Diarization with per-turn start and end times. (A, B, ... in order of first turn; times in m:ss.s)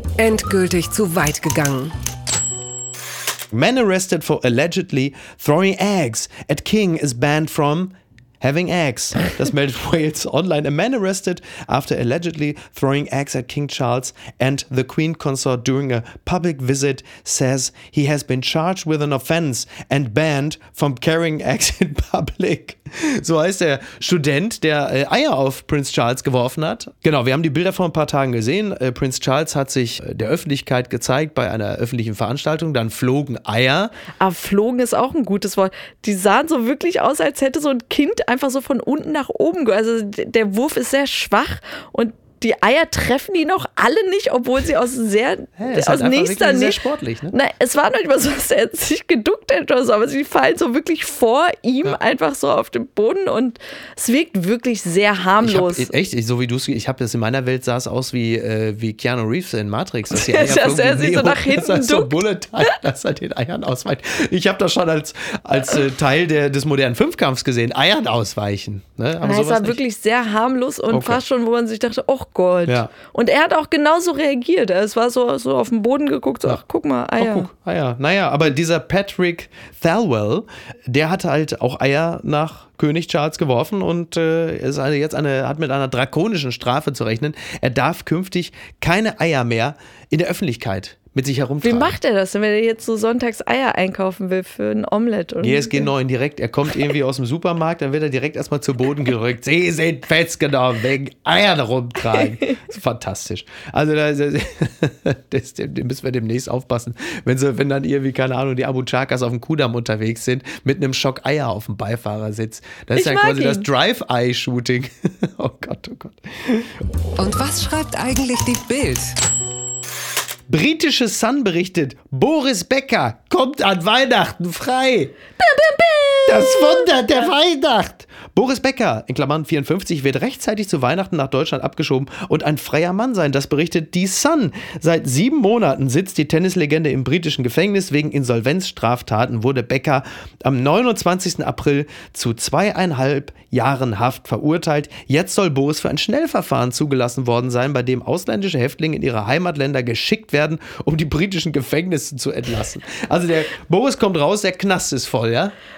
0:00.2-0:01.9 A
0:03.5-0:33.9 B
0:34.2-0:46.8 C
0:45.6-0:47.3 B
0:47.3-0:55.9 C
0:55.4-1:09.8 B
1:00.1-1:02.1 C
1:09.2-1:17.5 C
1:10.9-1:11.2 B
1:17.2-1:31.9 B
1:31.6-1:35.9 C
1:35.4-1:56.7 B
1:42.1-1:42.5 C
1:53.0-1:53.7 C
1:57.2-1:59.2 A
2:00.5-2:05.1 B
2:06.2-2:35.5 B